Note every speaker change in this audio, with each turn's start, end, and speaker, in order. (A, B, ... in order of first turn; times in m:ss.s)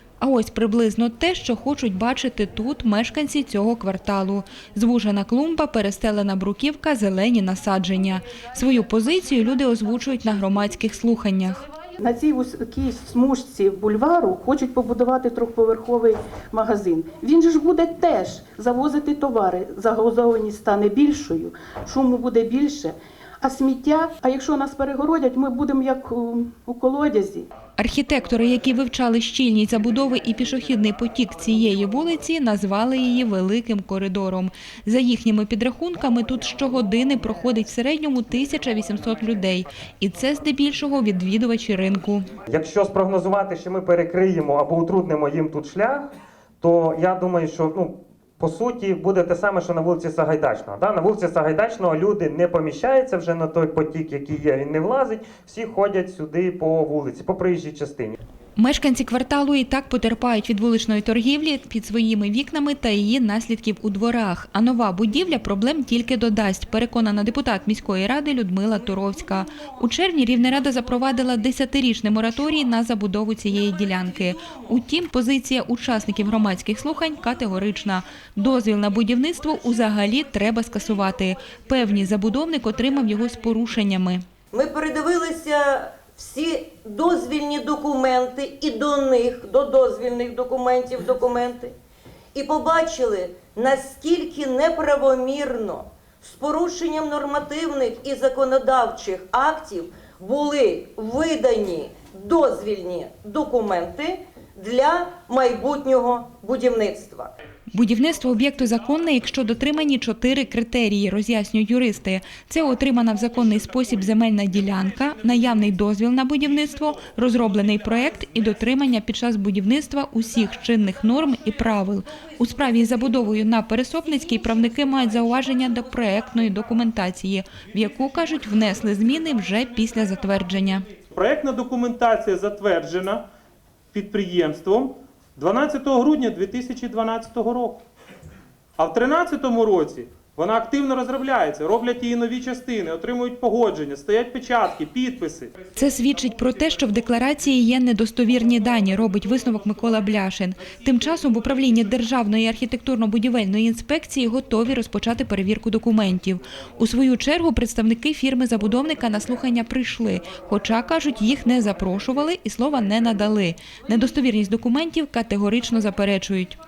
0:00.2-0:11.6 A
0:12.0-0:27.5 B
0:27.8-0:42.2 A
0:42.5-0:46.1 C
0:46.6-0:58.1 C
0:58.6-1:24.2 A
1:24.5-1:31.7 D
1:32.3-1:47.3 D
1:47.7-2:10.9 A
2:11.1-2:13.2 E
2:13.9-2:17.8 E
2:18.8-2:25.5 E
2:25.8-2:46.6 A